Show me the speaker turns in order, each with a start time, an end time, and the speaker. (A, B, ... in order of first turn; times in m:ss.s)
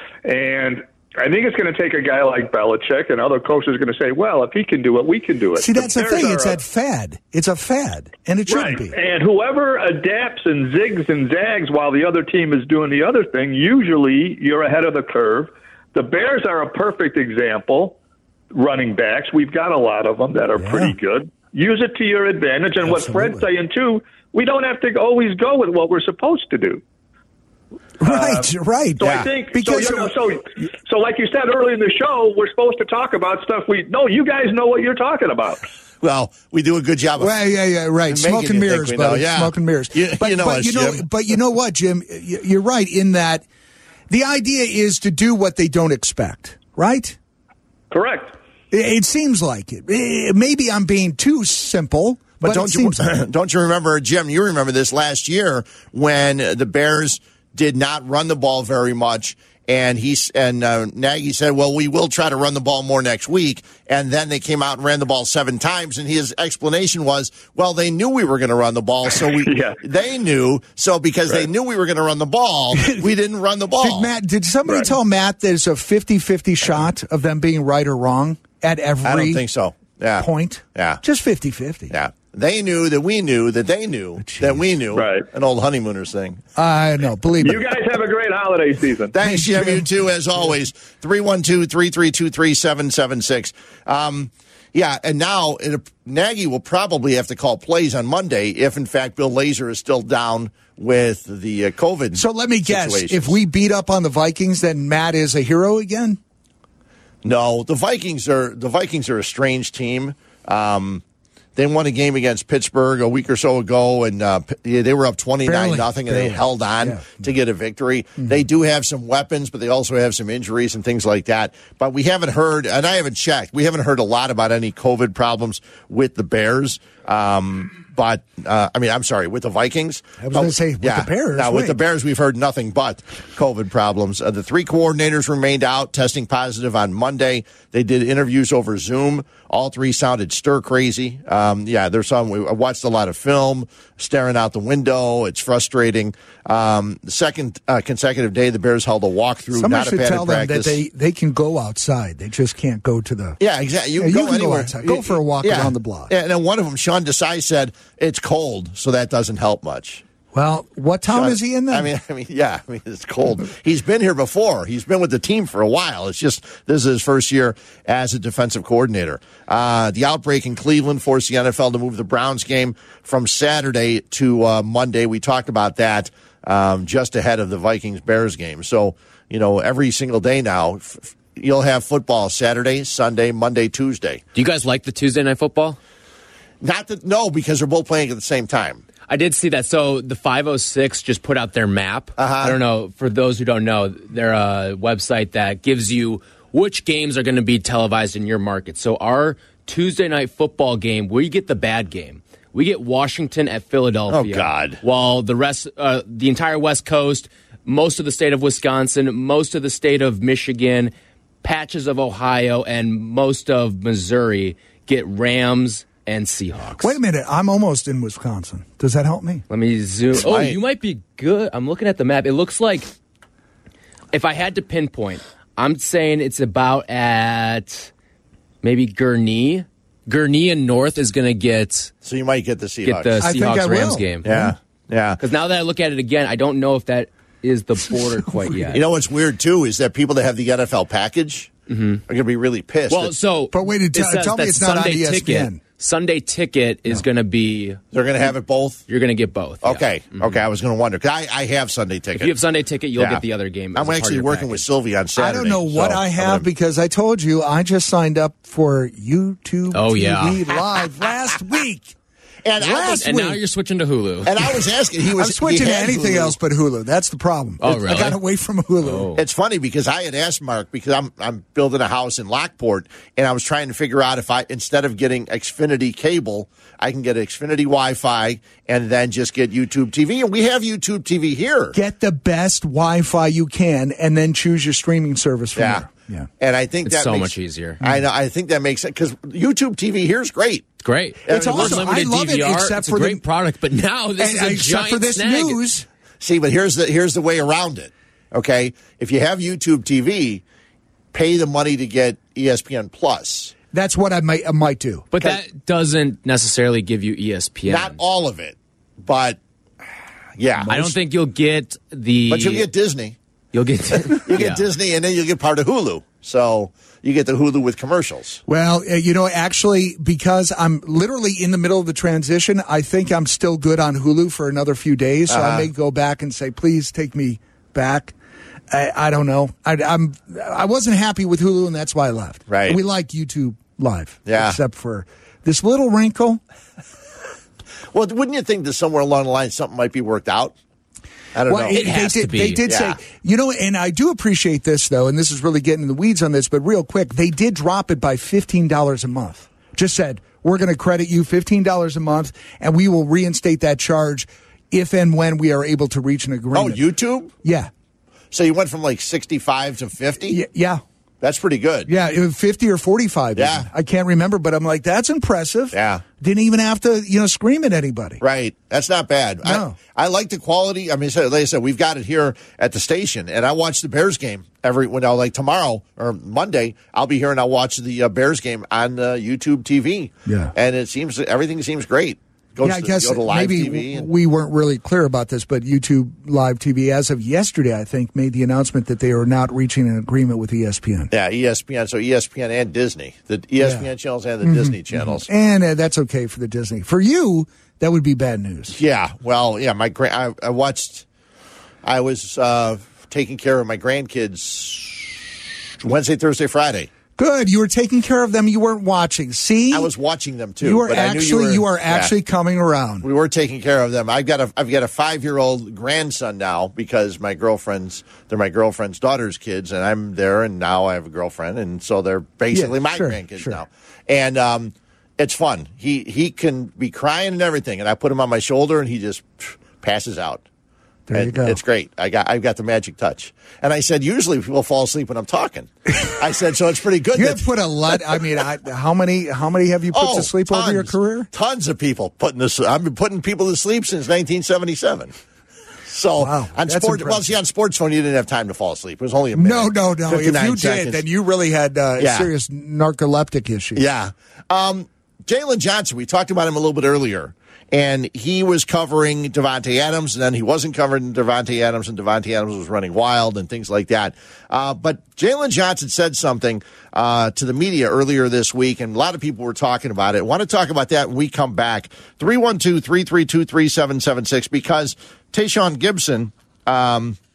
0:00.2-0:06.6 A
0:05.6-0:09.0 B
0:08.5-0:18.0 A
0:18.5-0:26.8 A
0:20.6-0:20.9 B
0:22.8-0:23.4 B
0:28.0-0:30.1 B
0:28.0-0:35.6 A
0:29.0-0:29.3 C
0:36.0-0:37.4 C
0:37.2-0:43.4 B
0:38.1-0:41.1 C
0:44.1-0:47.2 B
0:47.9-0:48.4 A
0:48.7-0:53.1 B
0:52.4-1:14.1 C
1:09.2-1:09.8 A
1:12.7-1:13.0 B
1:13.8-1:19.4 B
1:19.0-1:21.0 C
1:20.2-1:21.9 B
1:21.9-1:26.4 C
1:24.2-1:24.6 B
1:24.9-1:25.2 A
1:26.6-1:27.8 B
1:27.4-1:29.1 A
1:29.1-1:43.4 C
1:29.2-1:29.9 B
1:42.1-1:46.2 B
1:47.2-1:51.0 C
1:51.6-2:30.8 C
1:55.4-1:57.2 B
2:10.2-2:11.8 B
2:29.5-2:33.4 B
2:33.4-2:40.0 C
2:34.0-2:36.1 B
2:40.3-2:41.9 B
2:41.1-3:04.2 C
3:04.3-3:05.8 D
3:06.6-3:08.8 C
3:09.1-3:37.0 D
3:12.2-3:12.6 C
3:24.1-3:24.8 C
3:36.8-3:39.4 B
3:39.5-3:42.9 D
3:40.2-3:40.6 C
3:44.1-3:47.9 D
3:48.6-3:51.9 D
3:52.0-3:53.2 C
3:52.8-3:54.4 D
3:53.2-3:54.4 B
3:54.2-3:55.2 C
3:55.2-3:58.8 D
3:58.7-4:01.5 C
4:01.7-4:02.0 D
4:02.1-4:03.1 C
4:02.9-4:07.8 D
4:03.5-4:05.6 B
4:07.9-4:08.8 C
4:08.9-4:10.3 D
4:09.6-4:12.3 C
4:12.2-4:14.6 D
4:12.9-4:16.5 C
4:15.2-4:21.9 B
4:19.7-4:20.4 D
4:22.4-4:23.1 C
4:22.6-4:23.4 B
4:23.0-4:24.4 D
4:24.2-4:26.4 C
4:25.2-4:29.1 B
4:27.6-4:28.2 D
4:28.8-4:29.2 D
4:29.2-4:41.8 C
4:41.7-4:46.3 B
4:45.6-4:45.9 C
4:46.4-4:50.7 C
4:46.8-4:47.8 D
4:50.8-4:55.6 D
4:51.2-4:52.0 C
4:51.3-4:53.2 B
4:54.2-4:55.8 B
4:56.2-5:00.4 C
5:01.1-5:03.5 C
5:03.7-5:05.1 B
5:05.1-5:08.0 D
5:07.7-5:09.4 C
5:10.4-5:10.9 C
5:10.7-5:12.7 D
5:12.3-5:13.2 C
5:13.5-5:14.6 D
5:14.1-5:18.4 C
5:18.5-5:28.1 B
5:25.3-5:25.7 C
5:28.7-5:36.4 B
5:32.5-5:32.8 C
5:34.2-5:34.6 C
5:37.9-5:40.5 C
5:41.3-5:41.8 C
5:41.5-5:56.8 B
5:41.7-5:42.6 D
5:42.6-5:43.0 C
5:56.5-5:57.3 C
5:57.4-5:57.7 B
5:58.3-6:00.4 C
6:00.2-6:00.8 B
6:01.2-6:01.9 C
6:01.9-6:08.2 B
6:03.4-6:03.7 C
6:05.7-6:06.0 C
6:08.2-6:24.1 C
6:09.4-6:09.8 B
6:20.3-6:20.5 B
6:22.6-6:31.1 B
6:31.1-6:35.3 C
6:33.6-6:33.9 B
6:34.4-6:38.8 B
6:38.7-6:41.0 C
6:41.8-6:46.9 C
6:47.2-6:49.9 B
6:49.7-6:52.1 C
6:50.6-6:53.1 B
6:53.0-7:10.4 C
7:02.5-7:03.6 B
7:11.1-7:11.6 B
7:11.1-7:18.2 C
7:17.1-7:21.3 B
7:19.9-7:25.1 C
7:25.9-7:31.0 C
7:26.2-7:27.3 B
7:29.3-7:33.8 B
7:32.0-7:32.3 C
7:33.8-7:57.2 C